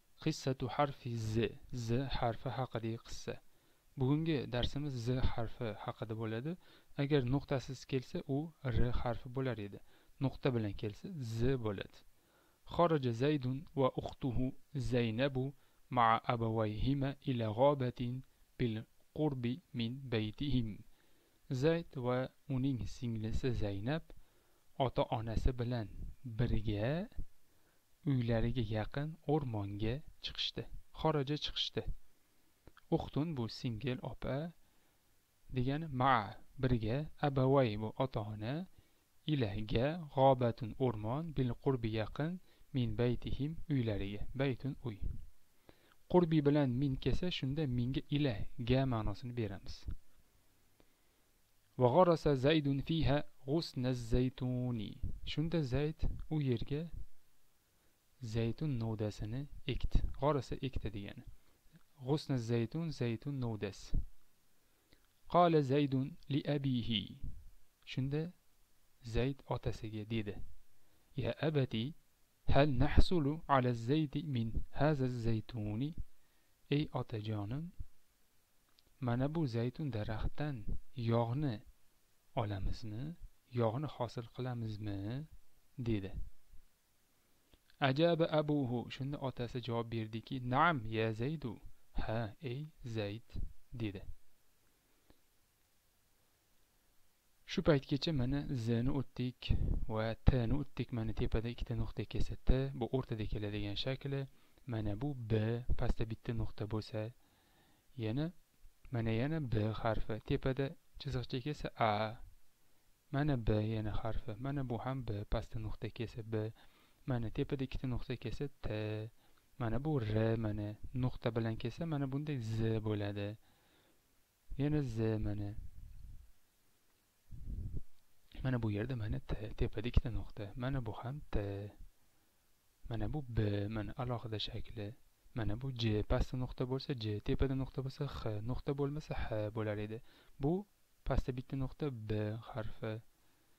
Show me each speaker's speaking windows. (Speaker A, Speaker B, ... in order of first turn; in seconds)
Speaker A: 0.2-3.4, 4.0-12.0, 12.7-20.8, 21.5-24.1, 24.8-27.1, 28.1-31.9, 32.9-34.5, 35.5-38.7, 39.3-45.1, 46.1-49.9, 51.8-56.9, 58.2-61.2, 62.0-64.0, 65.3-67.3, 67.9-68.3, 69.0-70.4, 71.2-71.9, 72.5-76.0, 76.7-77.7, 79.0-81.6, 82.4-85.3, 85.8-86.2, 87.8-94.1, 97.5-107.1, 108.0-108.3, 108.9-112.2, 113.1-116.5, 117.1-123.4, 124.6-125.6, 128.4-131.8, 132.9-143.0